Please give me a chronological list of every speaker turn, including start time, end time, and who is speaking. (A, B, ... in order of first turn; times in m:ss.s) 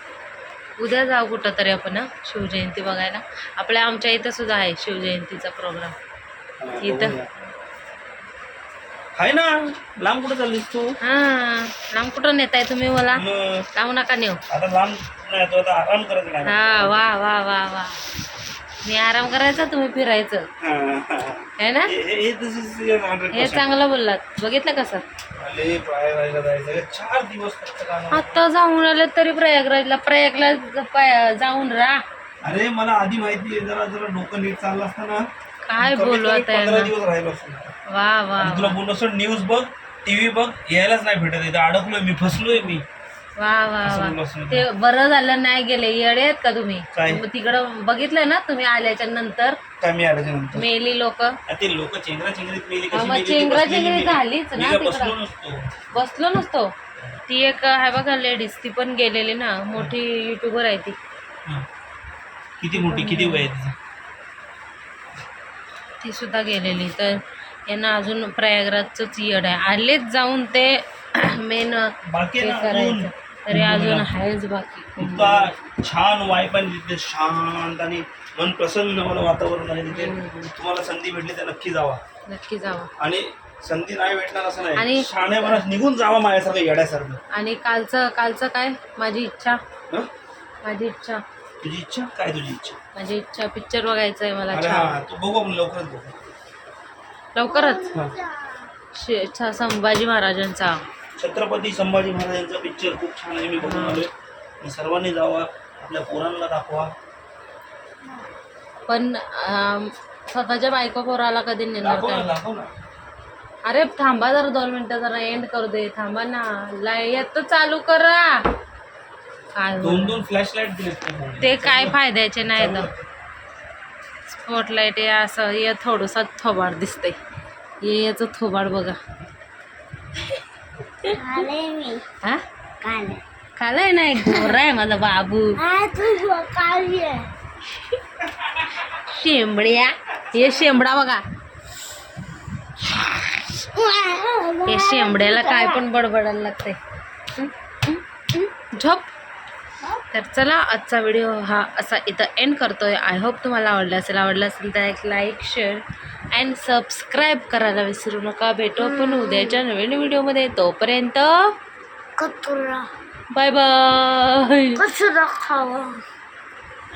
0:00.8-0:05.9 A
0:06.6-0:07.3 B
0:06.8-0:07.2 A
0:09.2-0:10.9 B
0:11.0-0:13.2 A
0:13.1-0:13.7 B
0:13.7-0:14.4 A
0:14.5-0:17.0 B
0:16.4-0:18.0 A
0:18.8-0:20.5 A
0:20.6-0:23.7 B
0:21.6-0:21.9 A
0:23.3-0:25.0 A
0:25.4-0:28.4 B
0:28.1-0:32.0 A
0:32.4-0:35.3 B
0:35.6-0:36.9 A
0:35.8-0:37.7 B
0:37.9-0:38.8 A
0:38.4-0:42.9 B
0:43.4-0:49.6 A
0:43.8-0:44.6 B
0:46.9-0:47.2 B
0:49.8-0:50.6 B
0:50.5-0:51.4 A
0:51.5-0:55.7 B
0:52.9-0:55.1 A
0:55.9-0:56.7 A
0:57.3-1:01.0 A
1:02.6-1:03.8 B
1:02.7-1:03.5 A
1:06.0-1:15.5 A
1:12.1-1:14.1 B
1:15.0-1:22.0 B
1:19.9-1:20.5 A
1:22.2-1:22.9 A
1:23.0-1:27.2 B
1:24.8-1:25.6 A
1:27.3-1:29.6 A
1:30.6-1:31.2 A
1:31.6-1:32.8 B
1:32.9-1:34.9 A
1:34.5-1:36.1 B
1:37.4-1:37.9 A
1:37.4-1:38.7 C
1:38.9-1:40.8 A
1:41.2-1:46.9 B
1:43.6-1:44.0 A
1:48.9-1:52.4 A
1:51.8-1:52.7 B
1:53.6-1:58.4 A
1:59.5-2:00.2 A
1:59.8-2:02.0 B
2:01.4-2:02.9 A
2:02.5-2:03.0 B
2:04.3-2:07.2 A
2:07.8-2:09.0 A
2:11.1-2:12.0 C
2:12.8-2:13.2 C
2:13.6-2:15.6 A
2:14.3-2:14.5 C
2:15.6-2:17.3 C
2:18.8-2:21.2 A
2:23.6-2:25.8 C
2:24.7-2:26.8 A
2:27.3-2:29.1 A
2:30.1-2:41.5 A
2:38.8-2:39.6 C
2:42.2-2:42.9 C
2:43.3-2:44.8 A
2:44.8-2:46.0 C